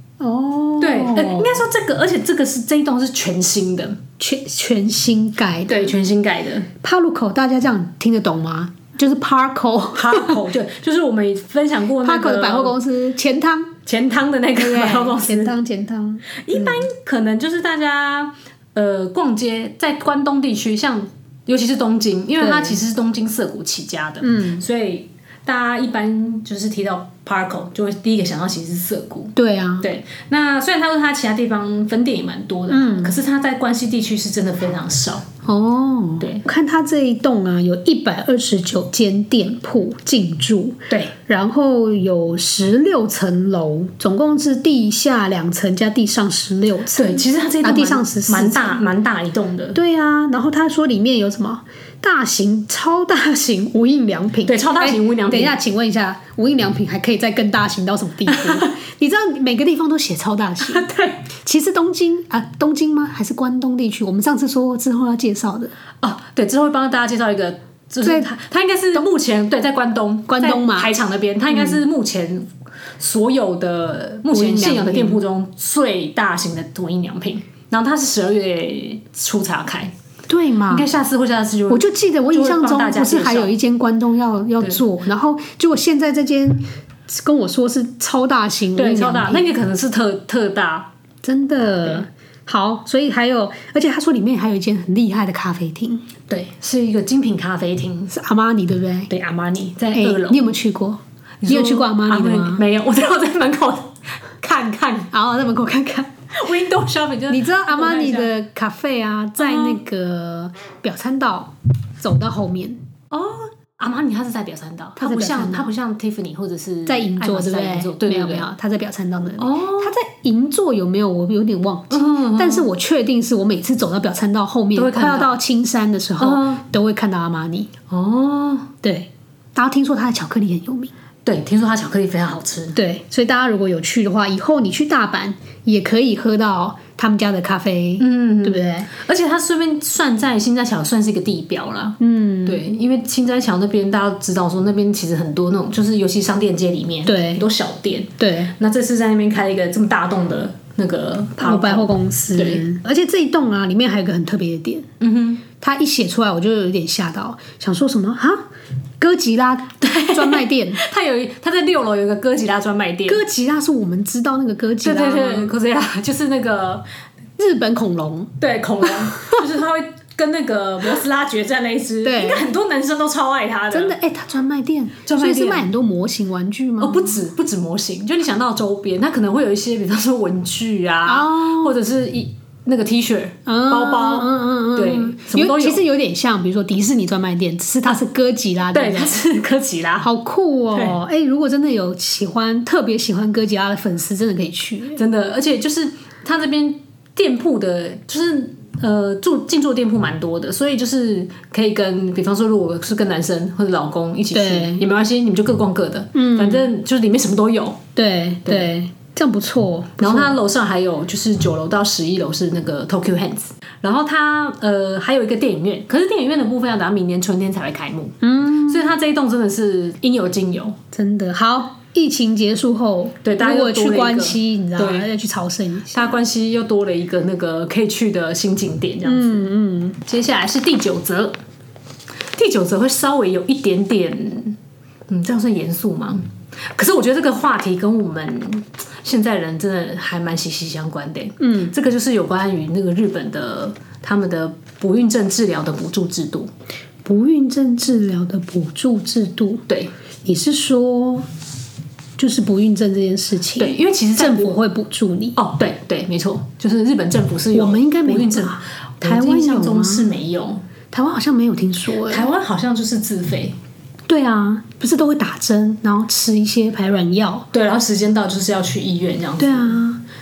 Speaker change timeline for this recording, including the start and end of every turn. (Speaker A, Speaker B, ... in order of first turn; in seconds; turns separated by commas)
Speaker A: 0.2-1.6, Speaker B: 0.8-4.0, Speaker A: 4.2-5.9, Speaker B: 5.7-6.7, Speaker A: 6.8-10.4, Speaker B: 9.9-12.8, Speaker A: 12.0-13.8, Speaker B: 13.8-15.6, Speaker A: 14.5-16.8, Speaker B: 16.4-35.3, Speaker A: 22.4-22.8, Speaker A: 24.2-24.6, Speaker A: 29.4-29.9, Speaker A: 32.7-33.1, Speaker A: 35.4-48.8, Speaker B: 46.9-49.8, Speaker A: 49.7-65.7, Speaker B: 54.4-55.6, Speaker B: 58.3-58.7, Speaker B: 60.6-61.2, Speaker B: 66.0-79.9, Speaker A: 68.0-68.3, Speaker A: 70.3-70.9, Speaker A: 71.5-71.8, Speaker A: 74.3-75.2, Speaker A: 80.3-80.9, Speaker B: 80.7-83.5, Speaker A: 81.7-89.5, Speaker B: 88.8-90.9, Speaker A: 91.2-96.1, Speaker B: 96.3-98.1, Speaker A: 98.1-99.1, Speaker B: 99.1-100.4, Speaker A: 99.9-102.6, Speaker B: 101.4-105.1, Speaker A: 105.1-106.1, Speaker B: 106.3-108.3, Speaker A: 107.3-112.8, Speaker B: 109.4-109.8, Speaker B: 113.1-118.5, Speaker A: 115.0-115.7, Speaker A: 116.9-127.7, Speaker B: 119.4-119.9, Speaker B: 121.9-122.7, Speaker B: 124.7-125.4, Speaker B: 126.2-126.6, Speaker B: 127.9-128.7, Speaker A: 128.8-130.9, Speaker B: 131.2-132.8, Speaker A: 132.7-138.9, Speaker B: 138.0-152.6, Speaker A: 142.0-142.6, Speaker A: 147.1-147.4, Speaker A: 148.2-148.5, Speaker A: 151.4-154.9, Speaker B: 155.0-155.4, Speaker A: 155.6-158.4, Speaker A: 159.0-160.8, Speaker B: 159.8-163.2, Speaker A: 163.1-165.5, Speaker B: 164.8-166.8, Speaker A: 167.4-169.4, Speaker B: 168.4-174.0, Speaker A: 172.0-172.4, Speaker A: 173.7-177.2, Speaker B: 175.1-175.7, Speaker B: 176.8-185.8, Speaker A: 181.0-181.8, Speaker A: 183.4-189.2, Speaker B: 188.7-190.1, Speaker A: 190.0-195.0, Speaker B: 190.7-191.0, Speaker B: 194.9-207.8, Speaker A: 204.3-204.8, Speaker A: 206.1-206.7, Speaker A: 207.9-210.4, Speaker B: 210.0-220.8, Speaker A: 218.2-218.9, Speaker A: 220.9-226.2, Speaker B: 223.2-225.1, Speaker B: 225.9-229.5, Speaker A: 229.0-230.0, Speaker B: 230.0-231.4, Speaker B: 232.3-246.5, Speaker A: 241.4-241.7, Speaker A: 247.0-249.6, Speaker A: 250.2-251.2, Speaker A: 252.2-255.4, Speaker B: 253.6-254.6, Speaker B: 255.3-260.6, Speaker A: 257.5-260.1, Speaker A: 260.9-262.3, Speaker B: 262.1-263.6, Speaker A: 264.1-267.5, Speaker B: 267.5-269.8, Speaker A: 269.4-270.0